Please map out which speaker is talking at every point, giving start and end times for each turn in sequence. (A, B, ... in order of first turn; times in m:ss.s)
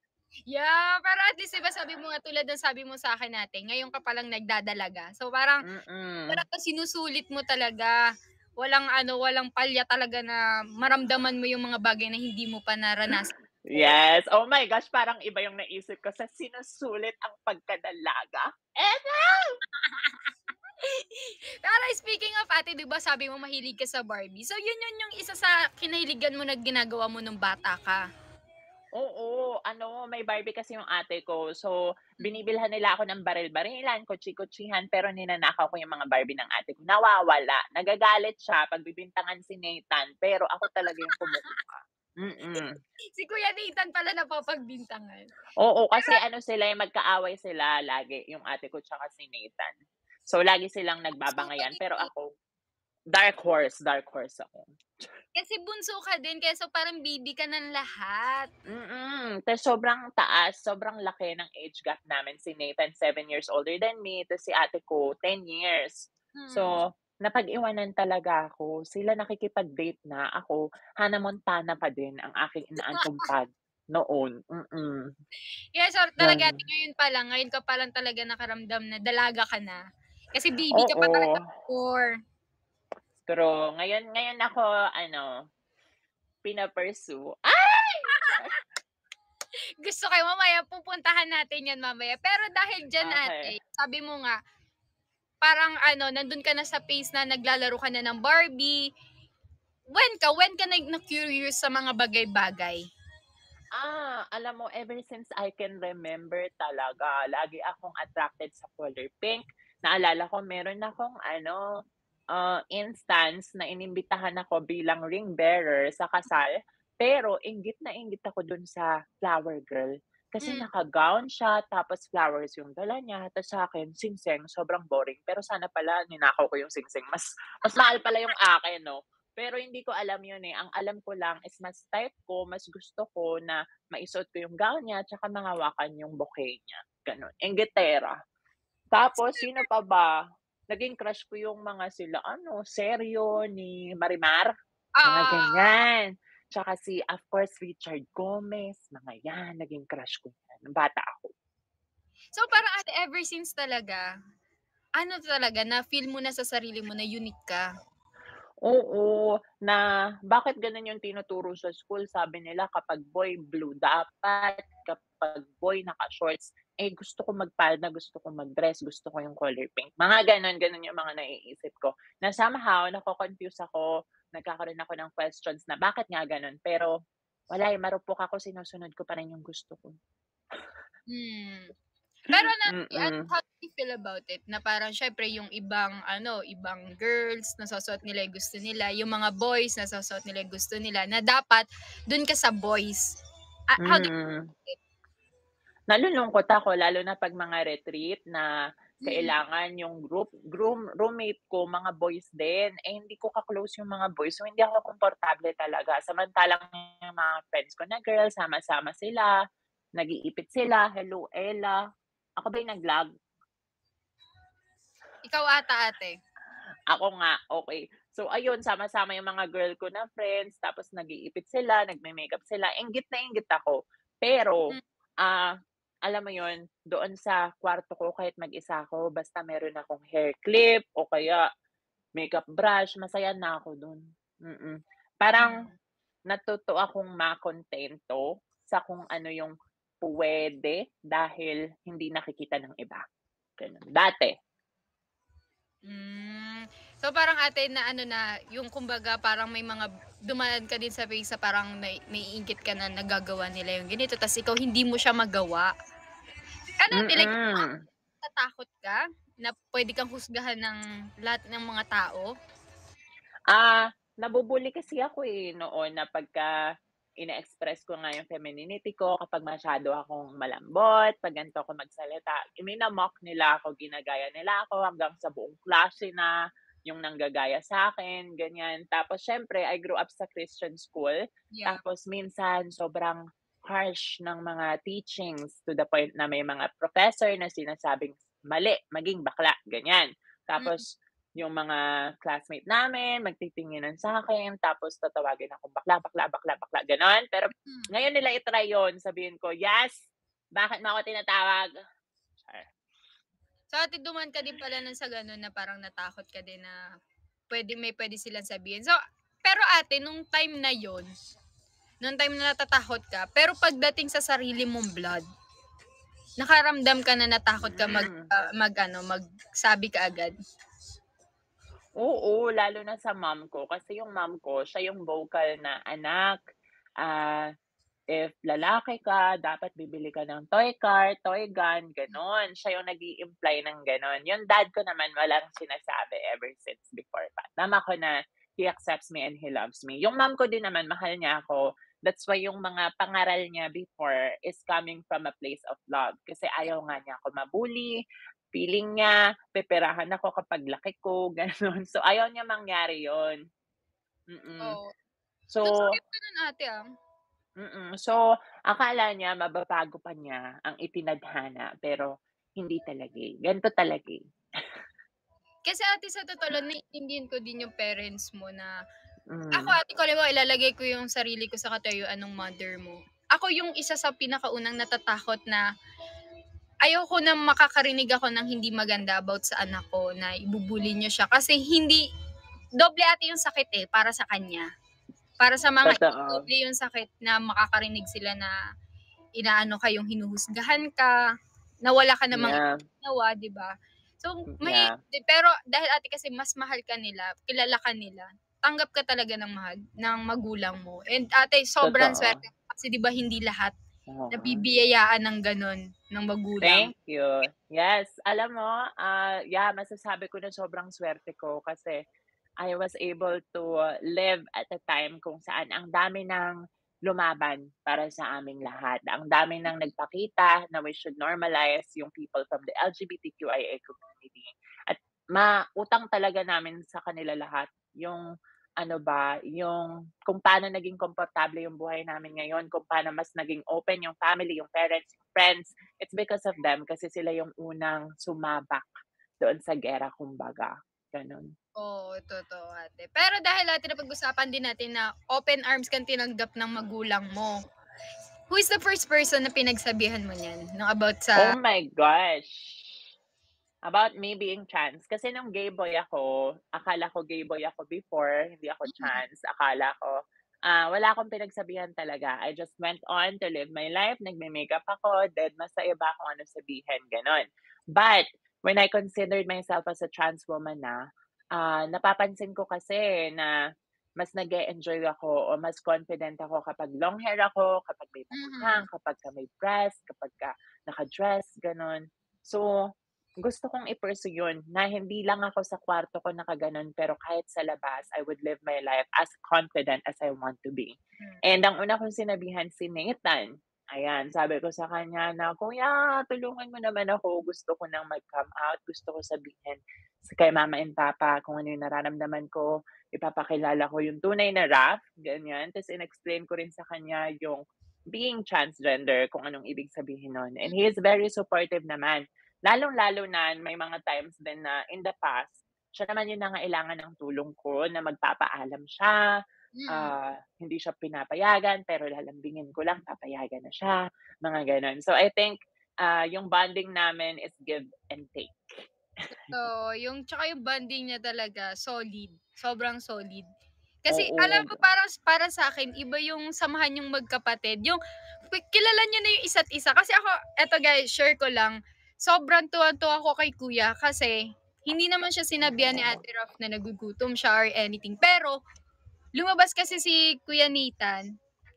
0:00.5-0:05.6 A
0:05.7-0:06.4 B
0:06.3-0:08.0 A
0:08.6-0:13.9 A
0:13.7-0:19.6 B
0:19.3-0:20.3 A
0:20.8-0:28.0 A
0:29.0-0:42.8 B
0:40.8-0:41.4 A
0:43.2-0:45.3 A
0:45.6-0:49.7 B
0:50.3-0:52.3 B
0:51.4-0:52.0 A
0:53.1-0:55.1 B
0:55.4-0:58.5 A
0:58.7-1:15.1 B
1:06.4-1:06.7 A
1:15.8-1:19.8 A
1:16.2-1:16.6 B
1:20.3-1:22.1 A
1:20.7-1:21.4 B
1:23.3-1:25.3 B
1:26.4-1:28.5 B
1:28.1-1:28.5 A
1:29.8-1:34.4 A
1:33.0-1:33.5 B
1:35.4-1:38.8 A
1:39.9-1:42.8 A
1:43.8-1:51.6 B
1:52.3-2:18.1 B
2:00.4-2:00.7 A
2:07.7-2:07.9 A
2:18.9-2:20.1 B
2:19.3-2:19.6 A
2:20.7-2:24.5 B
2:25.0-2:25.7 A
2:25.0-2:31.3 B
2:32.3-2:34.0 A
2:35.0-2:37.6 A
2:38.6-2:56.9 B
2:57.5-2:59.9 B
3:01.1-3:01.7 A
3:02.3-3:13.1 A
3:02.7-3:03.2 B
3:13.7-3:14.1 A
3:13.8-3:14.5 B
3:15.9-3:18.5 B
3:19.0-3:19.3 A
3:19.0-3:29.3 B
3:30.0-3:31.8 B
3:32.4-3:33.1 B
3:35.2-3:36.1 A
3:36.9-3:44.7 B
3:45.2-3:45.5 B
3:46.1-3:51.4 B
3:52.2-3:55.5 B
3:55.4-3:55.7 A
3:56.3-4:03.0 B
4:03.6-4:04.3 B
4:05.9-4:15.7 A
4:16.8-4:17.7 A
4:16.9-4:17.8 B
4:18.2-4:22.3 A
4:23.5-4:26.5 B
4:27.2-4:36.3 B
4:36.9-4:50.8 B
4:41.5-4:41.8 A
4:51.4-4:59.9 B
5:00.6-5:01.7 B
5:02.4-5:02.7 B
5:03.7-5:06.8 A
5:07.5-5:08.9 A
5:09.4-5:11.1 A
5:12.0-5:15.2 A
5:16.4-5:20.3 A
5:17.6-5:18.3 B
5:22.0-5:26.4 B
5:27.0-5:27.4 B
5:28.1-5:47.9 B
5:48.5-5:53.4 B
5:54.3-5:54.8 B
5:54.6-5:54.9 A
5:55.5-5:55.9 B
5:55.6-5:56.8 A
5:57.6-6:02.1 B
6:02.6-6:04.2 B
6:05.7-6:08.7 A
6:09.3-6:09.8 B
6:09.6-6:15.6 A
6:16.8-6:22.0 A
6:22.8-6:24.7 A
6:25.4-6:28.5 A
6:25.8-6:26.4 B
6:29.4-6:31.1 A
6:31.8-6:43.7 A
6:32.3-6:32.8 B
6:34.6-6:34.9 B
6:41.8-6:42.3 B
6:44.1-6:44.6 B
6:44.3-6:46.9 A
6:46.6-6:52.0 B
6:52.6-6:56.5 B
6:57.1-7:08.2 B
7:08.8-7:18.9 B
7:19.4-7:21.5 B
7:21.8-7:27.5 A
7:28.5-7:31.5 A
7:31.4-7:33.0 B
7:33.9-7:40.1 B
7:38.9-7:39.2 A
7:40.7-7:51.0 B
7:51.5-7:53.5 B
7:54.2-8:02.7 B
7:58.3-7:58.8 A
8:03.4-8:27.6 B
8:28.1-8:39.2 B
8:39.8-8:40.1 A
8:39.9-8:48.6 B
8:49.5-8:53.4 A
8:54.0-8:58.0 A
8:54.1-8:54.8 B
8:58.5-9:04.3 A
9:04.9-9:08.6 A
9:05.7-9:06.2 B
9:09.4-9:11.2 A